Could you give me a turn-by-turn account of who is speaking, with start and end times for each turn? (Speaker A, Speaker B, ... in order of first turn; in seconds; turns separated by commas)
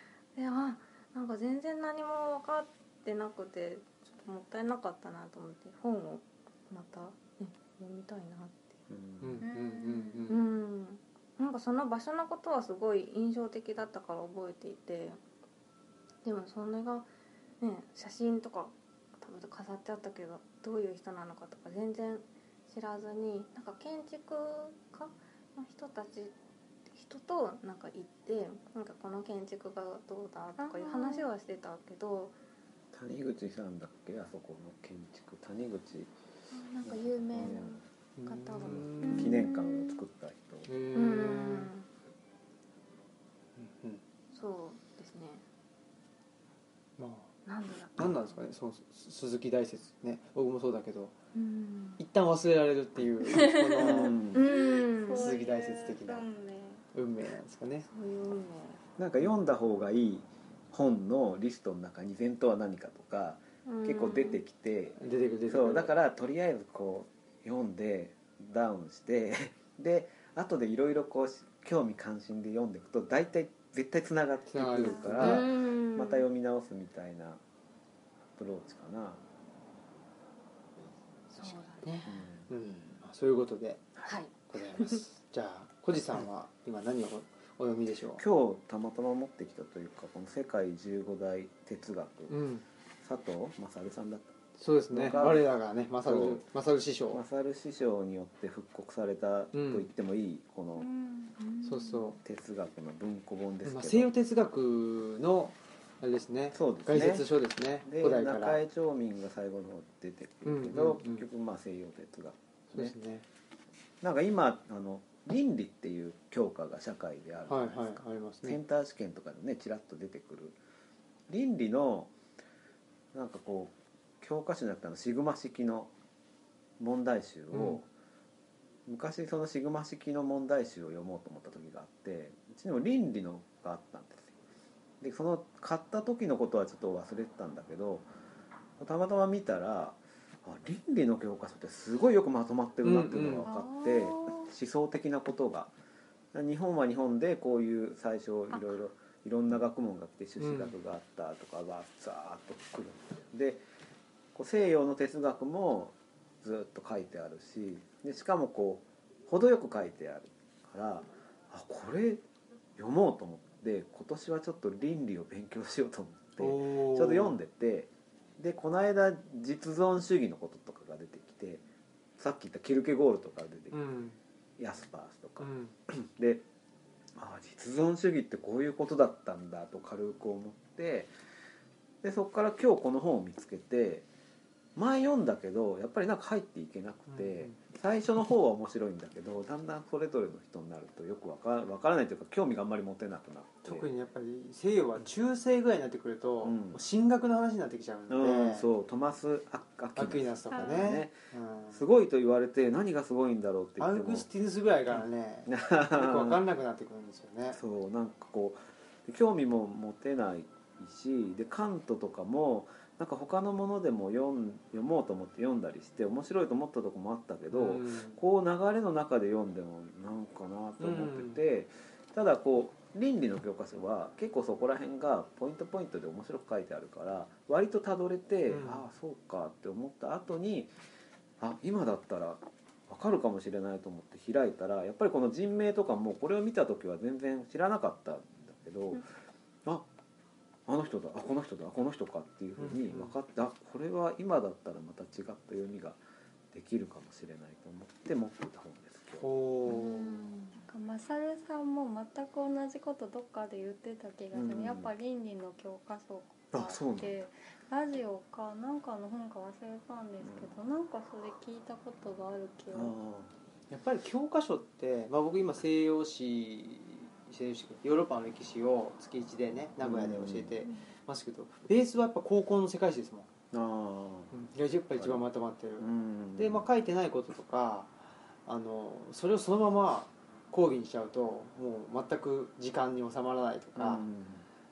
Speaker A: 0.3-8.8, Speaker B: 8.9-9.4, Speaker C: 9.2-10.4, Speaker D: 9.4-10.3, Speaker A: 10.3-15.2, Speaker A: 16.2-17.1, Speaker A: 17.6-26.3, Speaker A: 26.9-32.3, Speaker D: 30.6-31.3, Speaker B: 32.9-36.1, Speaker A: 36.5-39.9, Speaker B: 36.8-37.8, Speaker C: 38.2-39.5, Speaker B: 38.6-40.7, Speaker C: 40.7-41.7, Speaker A: 40.9-41.9, Speaker C: 43.6-44.0, Speaker A: 44.3-45.4, Speaker C: 47.0-47.3, Speaker A: 47.5-48.4, Speaker C: 48.0-51.1, Speaker A: 51.3-52.0, Speaker C: 52.0-54.2, Speaker D: 53.3-56.8, Speaker B: 53.8-54.4, Speaker A: 54.3-55.3, Speaker C: 55.2-56.2, Speaker C: 56.9-57.9, Speaker A: 57.8-58.8, Speaker B: 59.0-77.4, Speaker A: 63.6-64.4, Speaker C: 65.0-65.9, Speaker C: 74.5-75.5, Speaker A: 75.2-76.2, Speaker B: 78.3-79.2, Speaker C: 81.3-81.8, Speaker A: 81.3-82.2, Speaker B: 82.0-82.5, Speaker C: 82.5-88.2, Speaker A: 84.0-85.0, Speaker B: 88.2-92.4, Speaker C: 92.3-92.6, Speaker B: 93.0-94.3, Speaker C: 94.6-97.2, Speaker B: 94.9-95.5, Speaker B: 96.0-96.4, Speaker B: 97.1-100.9, Speaker C: 99.5-99.9, Speaker D: 100.8-101.3, Speaker A: 101.4-102.1, Speaker C: 101.6-102.2, Speaker B: 102.2-104.1, Speaker C: 103.6-108.6, Speaker B: 106.5-107.3, Speaker B: 107.8-112.9, Speaker C: 110.4-111.2, Speaker C: 112.7-113.2, Speaker B: 114.0-120.6, Speaker C: 117.5-118.6, Speaker B: 121.3-122.1, Speaker B: 123.1-125.9, Speaker B: 126.8-127.9, Speaker C: 127.5-127.8, Speaker B: 128.9-134.3, Speaker B: 135.0-138.1, Speaker B: 138.8-145.7, Speaker C: 142.8-143.5, Speaker D: 143.4-144.5, Speaker B: 146.3-153.6, Speaker C: 150.4-150.7, Speaker B: 154.3-162.2, Speaker B: 162.8-171.6, Speaker C: 166.4-167.3, Speaker B: 172.2-173.8, Speaker C: 173.7-174.2, Speaker B: 174.6-176.4, Speaker C: 175.4-175.7, Speaker B: 177.1-181.1, Speaker B: 182.0-184.1, Speaker B: 184.8-193.9, Speaker C: 187.1-187.6, Speaker C: 193.6-198.7, Speaker B: 196.4-196.8, Speaker B: 198.1-201.1, Speaker C: 200.0-201.8, Speaker D: 200.5-201.0, Speaker B: 201.7-204.3, Speaker C: 203.8-207.6, Speaker B: 204.9-206.4, Speaker B: 207.5-230.7, Speaker C: 217.5-218.2, Speaker C: 220.8-221.4, Speaker C: 228.5-228.9, Speaker B: 231.4-239.1, Speaker B: 240.7-246.0, Speaker C: 242.6-243.1, Speaker B: 246.5-249.3, Speaker C: 249.2-250.2, Speaker A: 249.7-250.6, Speaker D: 250.7-262.9, Speaker B: 254.3-254.9, Speaker B: 256.5-257.1, Speaker B: 260.2-260.5, Speaker B: 262.7-263.3, Speaker C: 263.7-273.3, Speaker B: 269.8-270.6, Speaker B: 273.5-274.3, Speaker C: 274.3-284.1, Speaker B: 274.9-275.3, Speaker B: 275.8-276.6, Speaker B: 283.8-284.4